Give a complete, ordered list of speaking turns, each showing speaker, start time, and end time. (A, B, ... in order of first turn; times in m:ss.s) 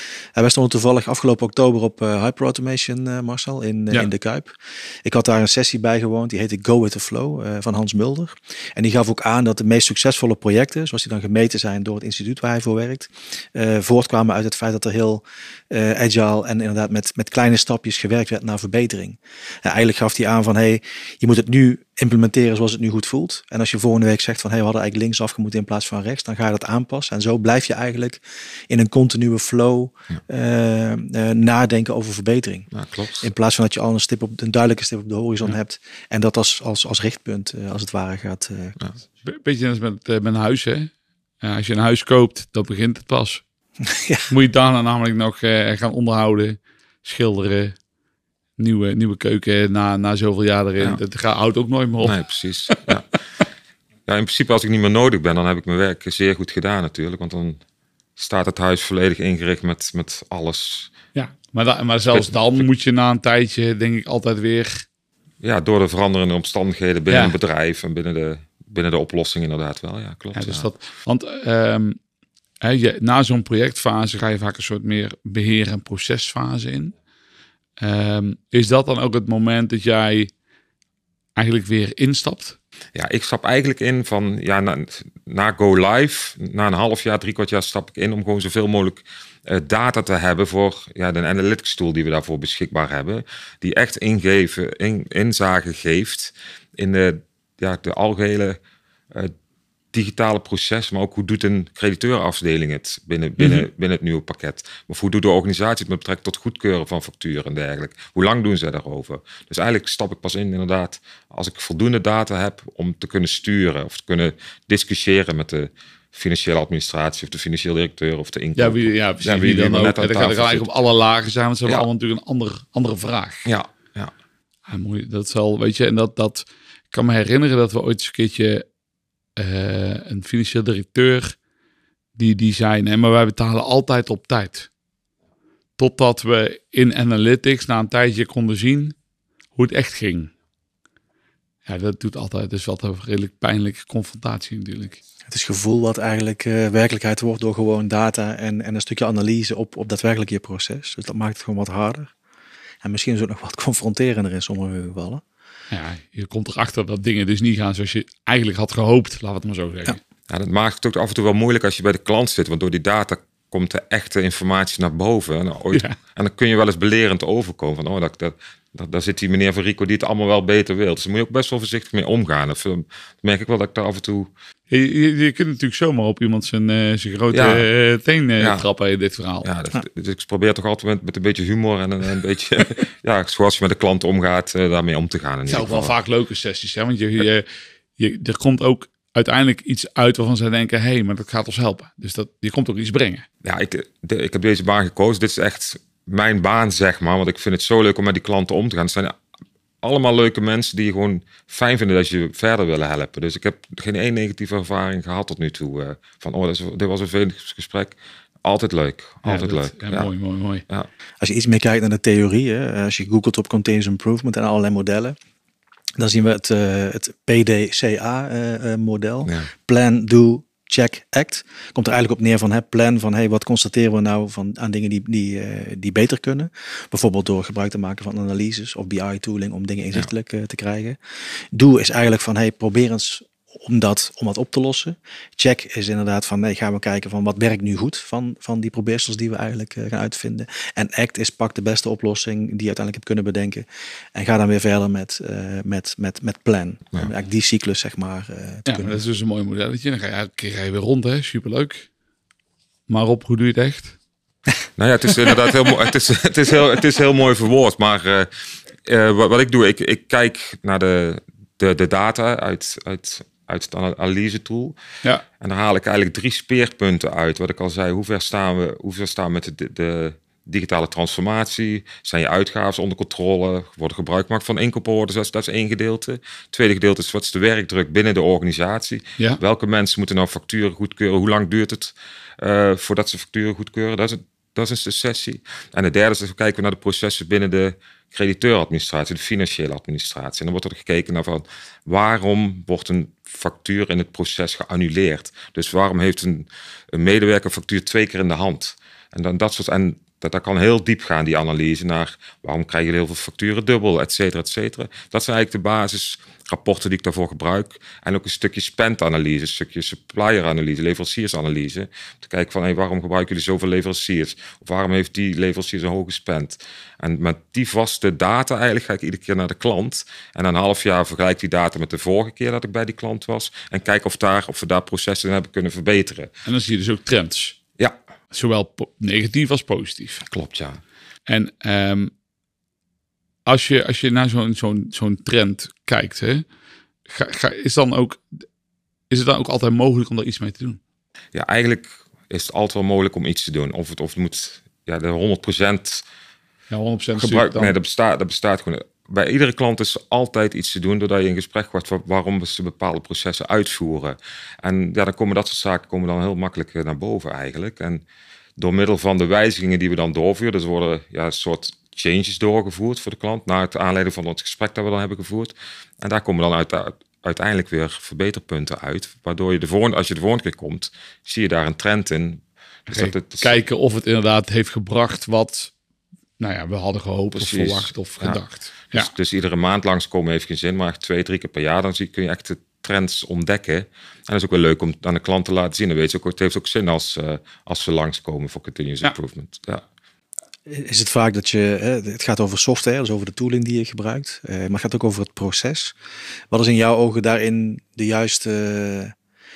0:00.3-0:32.7 A
0:32.7-0:33.3 B
0:33.2-0:38.8 A
0:39.2-0:43.4 C
0:43.9-0:44.3 A
0:44.3-0:47.8 C
0:48.6-0:52.2 C
0:52.0-0:53.1 B
0:52.7-0:53.0 C
0:54.1-0:57.6 B
0:58.2-1:00.9 B
1:01.1-1:04.8 C
1:02.1-1:02.6 B
1:05.4-1:10.7 B
1:07.1-1:07.3 C
1:10.3-1:12.0 C
1:12.6-1:16.9 C
1:17.8-1:20.3 C
1:21.4-1:22.6 C
1:22.9-1:38.6 B
1:39.9-2:00.7 B
1:43.4-1:43.6 C
1:58.6-2:03.5 C
2:03.4-2:04.1 B
2:04.7-2:08.6 C
2:09.4-2:11.4 C
2:12.1-2:14.7 C
2:15.8-2:18.9 C
2:19.5-2:20.3 C
2:21.6-2:25.0 C
2:25.3-2:32.1 A
2:32.8-2:35.2 A
2:35.7-2:40.0 C
2:40.3-2:54.3 B
2:54.7-2:59.5 C
2:57.3-2:57.7 B
2:58.4-2:58.6 B
2:59.4-3:05.9 B
3:05.5-3:07.5 C
3:08.0-3:13.2 C
3:13.4-3:19.2 B
3:19.8-3:30.1 B
3:29.2-3:30.6 C
3:31.2-3:35.2 A
3:36.0-3:51.0 A
3:51.5-4:09.0 A
4:08.7-4:11.9 C
4:12.9-4:14.0 C
4:14.8-4:18.3 B
4:18.8-4:24.8 B
4:25.4-5:26.3 B
5:26.4-5:27.6 C
5:28.3-5:30.2 C
5:30.2-5:30.8 B
5:31.3-5:32.1 C
5:33.4-5:36.4 C
5:37.1-5:38.4 C
5:39.1-5:40.8 C
5:41.3-5:46.0 B
5:46.7-5:47.8 C
5:47.2-5:58.0 B
5:58.6-6:13.5 B
6:12.9-6:15.7 C
6:16.4-6:19.1 C
6:17.3-6:18.4 B
6:18.9-6:29.8 B
6:30.7-6:35.9 A
6:36.5-6:39.1 A